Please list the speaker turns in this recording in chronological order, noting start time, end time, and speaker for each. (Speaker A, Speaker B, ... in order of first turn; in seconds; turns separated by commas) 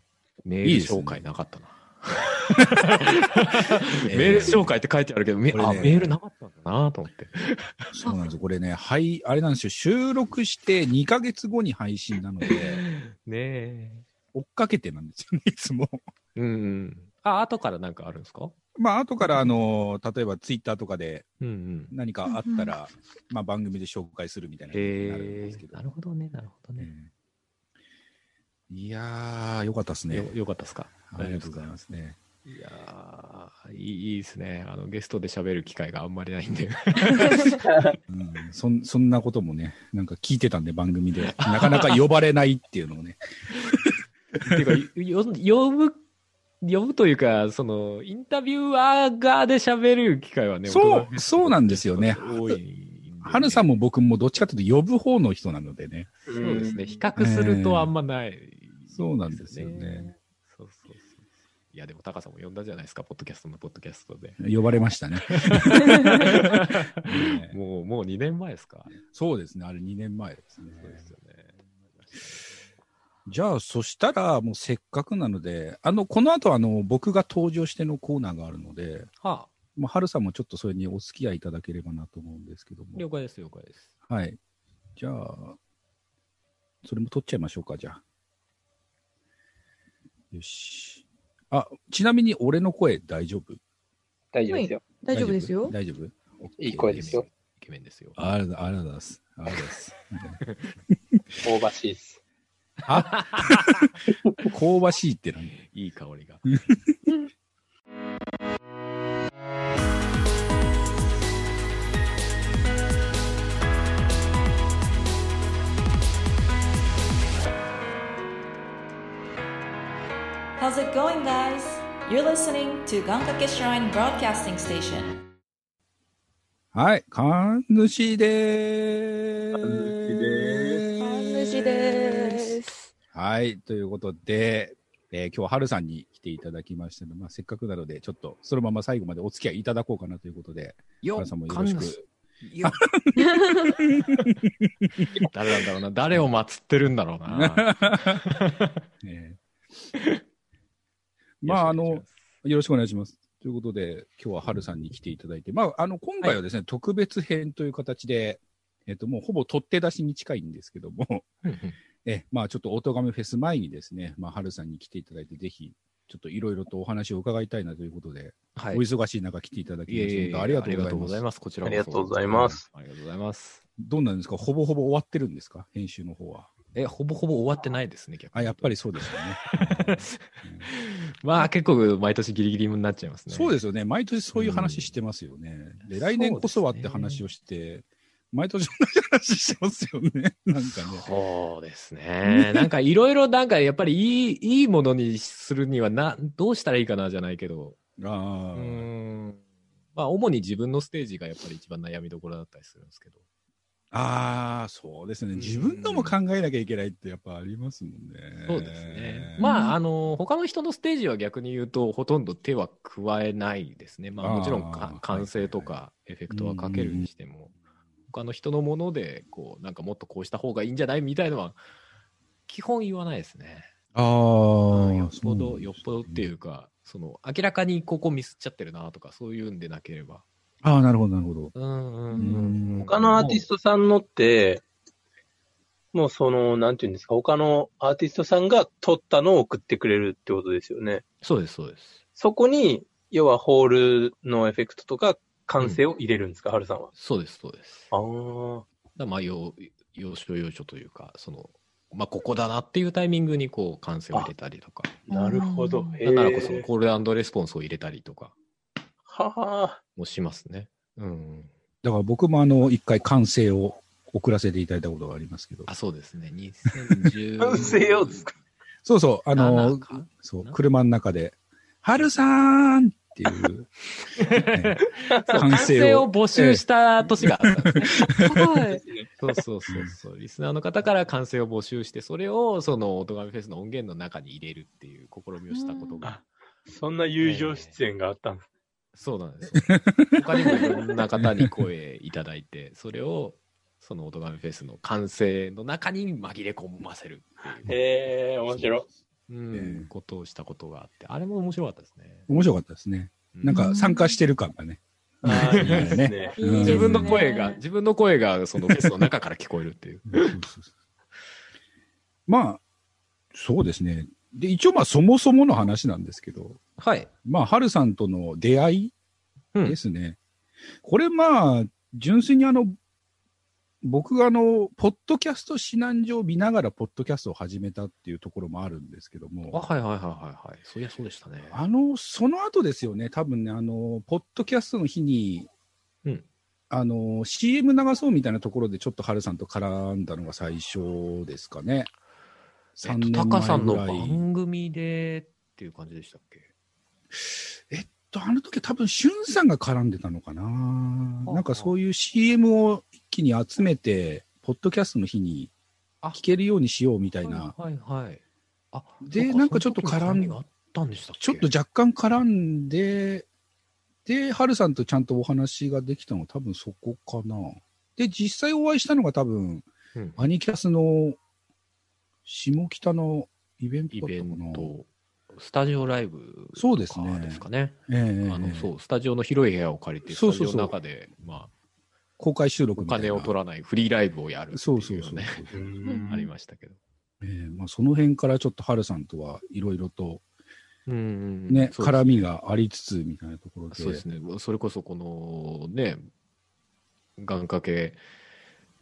Speaker A: 0.4-7.8, Speaker B: 0.6-1.2, Speaker B: 4.1-4.8, Speaker B: 5.5-6.1, Speaker B: 7.9-12.8, Speaker A: 12.4-14.1, Speaker B: 14.3-16.0, Speaker A: 16.3-18.5, Speaker B: 18.8-21.3, Speaker A: 21.4-21.9, Speaker B: 21.9-25.9, Speaker C: 22.2-22.7, Speaker A: 24.7-26.9, Speaker B: 26.8-27.1, Speaker B: 28.7-30.3, Speaker A: 30.1-31.7, Speaker B: 31.1-32.2, Speaker A: 32.5-37.7, Speaker B: 38.1-43.9, Speaker A: 41.3-42.0, Speaker A: 44.4-46.0, Speaker A: 46.6-53.6, Speaker B: 50.6-52.6, Speaker B: 53.2-56.1, Speaker A: 56.2-64.4, Speaker D: 56.3-57.0, Speaker B: 57.2-57.9, Speaker B: 58.9-60.1, Speaker B: 64.4-67.5, Speaker A: 65.3-68.9, Speaker B: 69.0-71.1, Speaker A: 70.7-72.6, Speaker B: 73.3-79.1, Speaker A: 79.2-79.5, Speaker B: 79.7-83.0, Speaker A: 82.9-83.9, Speaker B: 84.1-84.4, Speaker B: 85.0-85.6, Speaker B: 86.8-88.0, Speaker B: 90.3-93.6, Speaker D: 94.3-94.8, Speaker C: 94.5-95.7, Speaker B: 95.1-97.2, Speaker D: 96.6-97.2, Speaker A: 96.9-98.2, Speaker B: 98.2-101.2, Speaker A: 100.4-100.7, Speaker D: 101.4-102.2, Speaker A: 102.8-103.9, Speaker B: 102.9-103.9, Speaker B: 104.4-105.5, Speaker A: 105.6-106.5, Speaker E: 120.6-125.2, Speaker B: 126.7-132.5, Speaker D: 129.5-130.9, Speaker C: 131.0-132.9, Speaker B: 133.1-142.0, Speaker A: 141.0-142.8, Speaker B: 142.6-145.3, Speaker A: 145.2-148.8, Speaker B: 147.3-148.2, Speaker B: 149.0-149.4, Speaker A: 149.9-150.2, Speaker B: 151.4-161.2, Speaker A: 151.4-152.2, Speaker A: 161.4-161.8, Speaker B: 162.0-171.2, Speaker A: 168.6-168.8, Speaker A: 169.9-173.6, Speaker D: 171.6-172.6, Speaker B: 172.3-172.6, Speaker B: 173.8-176.5, Speaker A: 176.7-183.5, Speaker B: 178.3-180.7, Speaker B: 183.3-191.1, Speaker A: 184.3-184.9, Speaker A: 185.8-187.2, Speaker A: 190.8-197.8, Speaker B: 192.2-192.7, Speaker B: 198.0-198.9, Speaker A: 198.5-199.4, Speaker A: 199.9-203.2, Speaker B: 203.9-209.6, Speaker A: 205.3-206.2, Speaker A: 208.4-217.5, Speaker C: 209.4-209.8, Speaker B: 214.2-215.7, Speaker B: 216.3-217.1, Speaker A: 218.1-221.6, Speaker A: 222.5-223.7, Speaker B: 223.9-226.2, Speaker A: 224.7-230.2, Speaker B: 230.6-231.5, Speaker A: 231.5-233.4, Speaker B: 232.1-233.2, Speaker D: 232.9-234.6, Speaker D: 235.9-241.0, Speaker A: 241.2-242.0, Speaker D: 242.2-246.9, Speaker A: 246.9-247.9, Speaker D: 247.9-248.6, Speaker A: 248.9-254.9, Speaker D: 255.1-256.7, Speaker C: 255.1-256.0, Speaker A: 256.0-258.3, Speaker D: 259.1-259.8, Speaker A: 259.9-261.5, Speaker B: 261.8-265.7, Speaker A: 265.7-268.2, Speaker D: 267.4-268.3, Speaker B: 268.8-273.7, Speaker A: 269.3-270.6, Speaker A: 274.1-278.0, Speaker B: 274.3-274.8, Speaker B: 275.3-276.6, Speaker B: 277.2-278.4, Speaker C: 278.2-278.8, Speaker D: 278.7-279.1, Speaker A: 279.2-286.1, Speaker C: 285.5-286.1, Speaker D: 286.0-288.4, Speaker A: 287.2-287.8, Speaker A: 288.9-297.7, Speaker B: 289.5-290.0, Speaker B: 291.2-291.5, Speaker D: 297.7-298.8, Speaker A: 299.3-302.3, Speaker B: 299.5-299.9, Speaker B: 302.3-307.2, Speaker A: 303.3-303.6, Speaker C: 303.5-304.2, Speaker D: 305.2-306.4, Speaker A: 305.2-310.4, Speaker C: 306.3-307.6, Speaker B: 310.1-310.7, Speaker B: 312.3-312.6, Speaker B: 313.3-316.6, Speaker A: 316.8-317.1, Speaker B: 317.2-318.9, Speaker B: 319.6-320.2, Speaker B: 320.8-322.8, Speaker B: 323.8-329.6, Speaker A: 329.5-331.6, Speaker B: 331.5-335.5, Speaker B: 336.7-341.9, Speaker B: 342.7-344.2, Speaker A: 342.8-346.4, Speaker B: 347.1-355.5, Speaker A: 351.2-351.7, Speaker B: 356.1-357.5, Speaker A: 357.2-361.5, Speaker B: 359.0-360.4, Speaker B: 361.2-363.3, Speaker B: 364.1-371.2, Speaker A: 369.9-370.3, Speaker B: 372.2-374.7, Speaker A: 373.9-381.5, Speaker B: 376.6-378.7, Speaker B: 380.1-380.8, Speaker B: 382.2-383.3, Speaker A: 382.8-385.5, Speaker B: 384.5-385.6, Speaker D: 385.5-386.3, Speaker C: 385.8-386.2, Speaker A: 386.1-386.8, Speaker B: 387.2-390.2, Speaker A: 390.9-392.2, Speaker B: 391.5-394.0, Speaker A: 393.7-396.1, Speaker A: 397.2-398.0